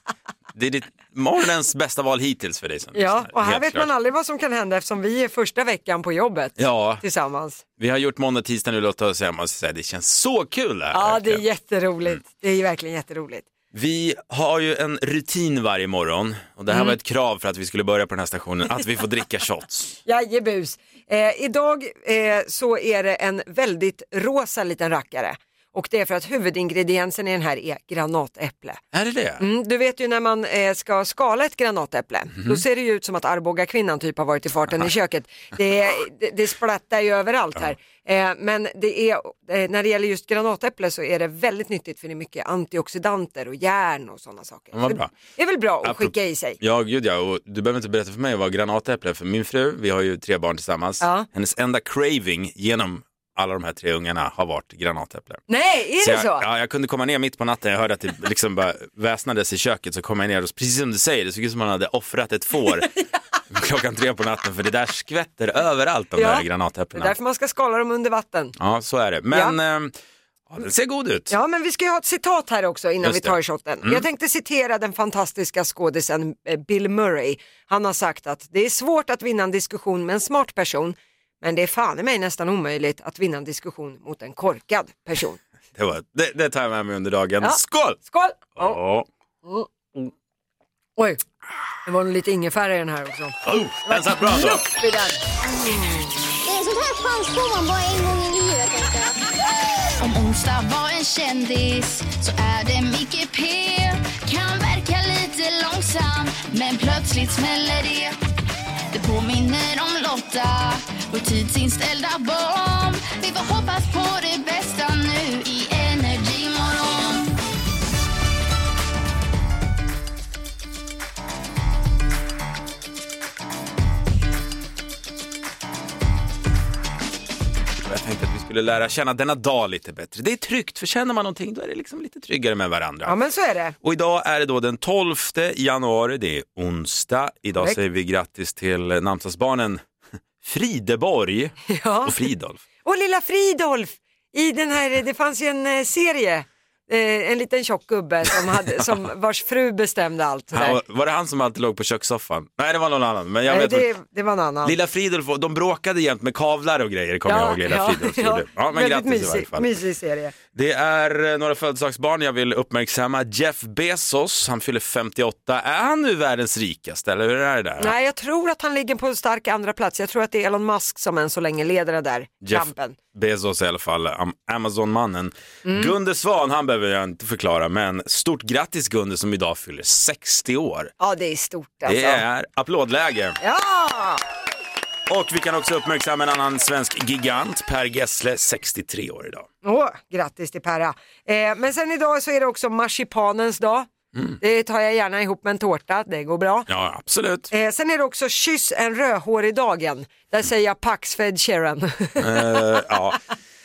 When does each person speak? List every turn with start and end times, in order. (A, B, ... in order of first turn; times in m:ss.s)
0:00.5-0:03.9 A
0:03.0-0:07.6 B
0:06.6-0:07.0 A
0:07.8-0:11.4 A
0:10.9-0:13.5 B
0:13.7-0:20.0 A
0:20.1-0:28.8 B
0:28.9-0:29.4 A
0:29.4-0:46.6 B
0:44.7-0:45.1 A
0:45.8-0:55.4 A
0:51.0-0:51.3 B
0:55.5-0:56.4 B
0:56.0-1:02.9 A
1:03.5-1:07.1 A
1:06.2-1:08.5 B
1:08.6-1:09.9 A
1:09.3-1:09.6 B
1:10.5-1:11.3 A
1:11.3-1:25.4 B
1:13.0-1:14.0 A
1:25.8-1:28.0 A
1:27.4-1:28.8 B
1:28.6-1:29.1 A
1:31.0-1:31.2 B
1:31.9-1:36.0 B
1:33.4-1:34.7 A
1:36.4-1:39.2 C
1:40.0-1:48.2 D
1:48.9-1:57.4 D
2:07.8-2:13.1 A
2:13.1-2:13.8 B
2:13.8-2:19.8 A
2:20.4-2:22.6 A
2:21.7-2:22.2 B
2:22.8-2:30.8 B
2:30.5-2:33.9 A
2:33.5-2:34.8 B
2:34.6-2:39.7 A
2:37.3-2:40.3 B
2:40.5-2:47.9 A
2:47.8-2:53.0 B
2:52.4-3:00.9 A
2:55.7-2:56.0 B
3:01.0-3:02.2 B
3:01.9-3:03.4 A
3:03.4-3:04.2 B
3:05.1-3:09.5 A
3:09.6-3:13.9 B
3:14.1-3:14.4 A
3:14.4-3:16.7 B
3:16.7-3:17.5 A
3:17.5-3:22.6 B
3:22.2-3:23.2 A